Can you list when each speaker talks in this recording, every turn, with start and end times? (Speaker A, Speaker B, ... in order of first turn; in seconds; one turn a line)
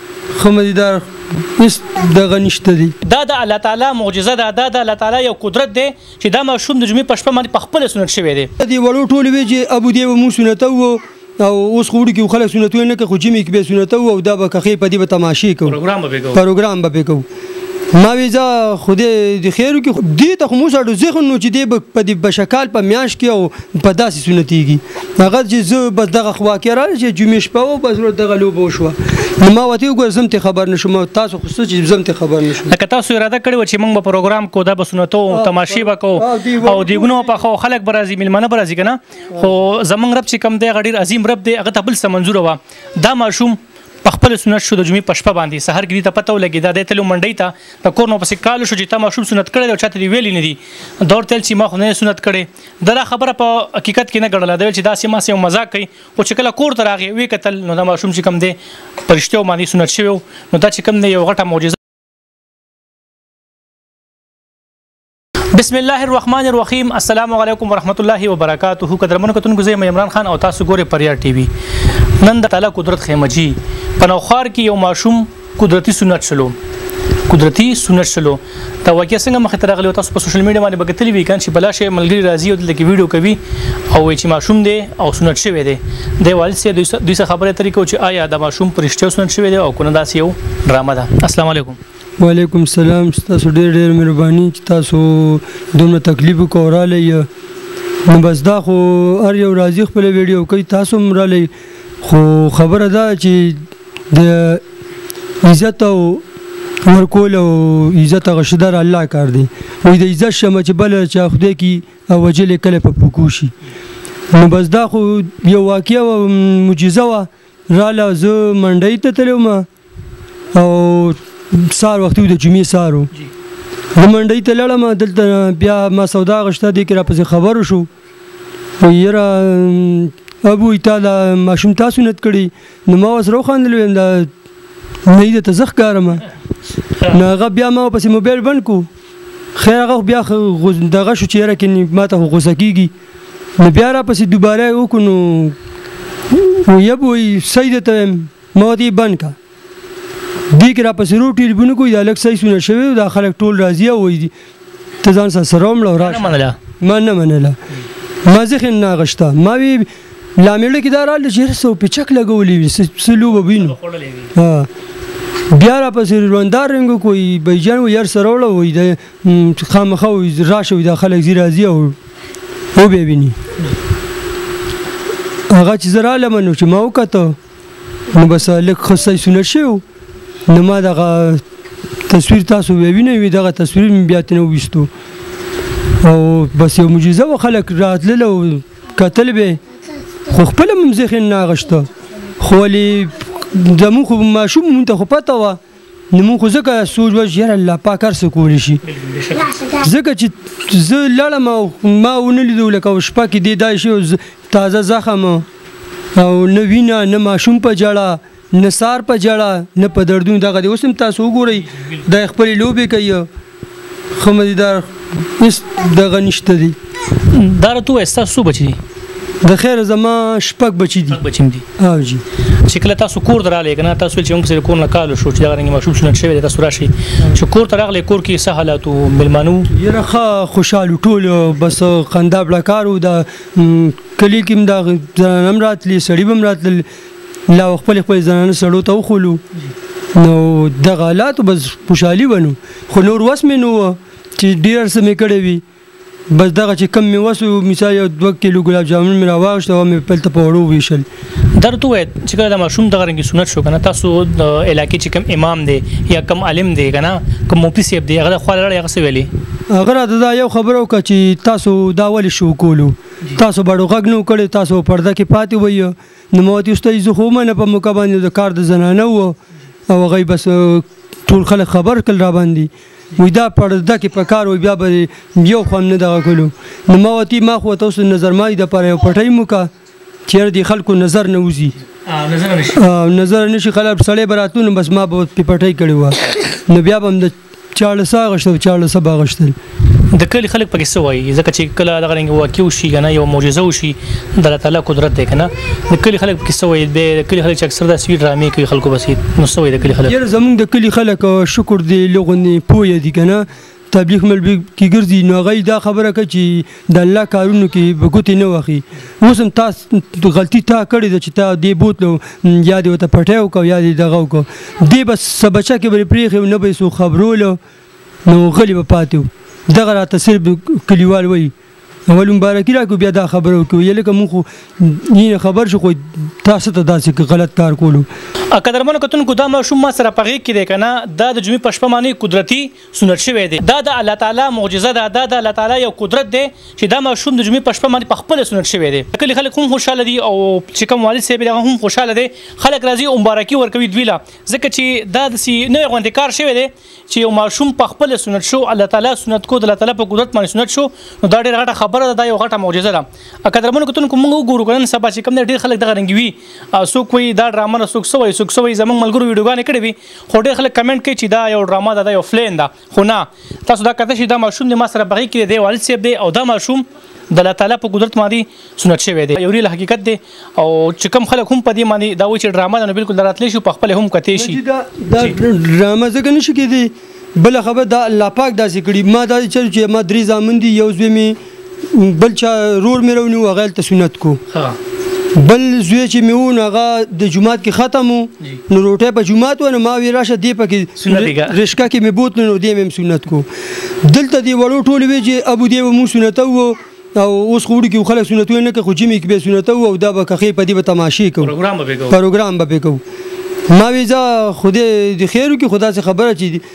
Speaker A: 0.3-3.0
Speaker B: 3.0-8.5
Speaker A: 8.6-15.8
Speaker B: 15.7-16.4
Speaker A: 16.3-17.3
Speaker A: 17.9-32.7
Speaker B: 32.7-61.8
Speaker A: 35.3-37.4
Speaker B: 65.5-71.5
Speaker B: 72.2-76.5
Speaker B: 77.3-91.8
Speaker A: 92.2-97.3
Speaker A: 98.1-101.5
Speaker A: 102.0-104.6
Speaker A: 105.4-106.2
Speaker A: 106.8-113.5
Speaker A: 114.3-119.7
Speaker A: 120.5-123.1
Speaker A: 124.0-127.9
Speaker A: 128.8-134.3
Speaker A: 135.1-136.2
Speaker A: 137.1-138.9
Speaker A: 139.6-142.9
Speaker A: 143.6-145.6
Speaker A: 146.3-149.3
Speaker A: 150.5-154.3
Speaker A: 155.0-157.6
Speaker B: 156.0-156.6
Speaker A: 158.2-163.8
Speaker B: 163.5-164.3
Speaker A: 164.3-164.7
Speaker A: 165.5-172.0
Speaker A: 172.8-173.4
Speaker A: 175.5-177.4
Speaker A: 178.1-179.8
Speaker A: 180.5-181.4
Speaker A: 182.1-184.9
Speaker A: 186.0-189.6
Speaker A: 190.3-195.6
Speaker A: 196.1-198.8
Speaker B: 198.8-199.7
Speaker A: 199.7-205.4
Speaker A: 206.2-213.3
Speaker A: 214.2-216.8
Speaker B: 217.2-218.8
Speaker A: 219.4-221.2
Speaker B: 221.1-221.6
Speaker A: 221.8-222.2
Speaker B: 222.6-229.7
Speaker A: 229.7-236.9
Speaker A: 237.5-239.4
Speaker A: 240.2-245.6
Speaker A: 246.3-251.1
Speaker B: 251.6-259.3
Speaker A: 259.7-269.4
Speaker A: 269.9-279.7
Speaker A: 280.3-281.8
Speaker B: 282.1-282.8
Speaker A: 282.8-289.6
Speaker B: 290.0-300.2
Speaker A: 300.0-317.6
Speaker A: 318.3-321.5
Speaker A: 322.1-328.1
Speaker B: 328.5-374.6
Speaker A: 374.3-381.4
Speaker A: 381.9-384.4
Speaker B: 384.5-384.8
Speaker A: 385.4-393.5
Speaker B: 391.0-391.6
Speaker A: 394.0-401.5
Speaker B: 401.4-402.2
Speaker A: 402.1-403.0
Speaker A: 403.7-406.6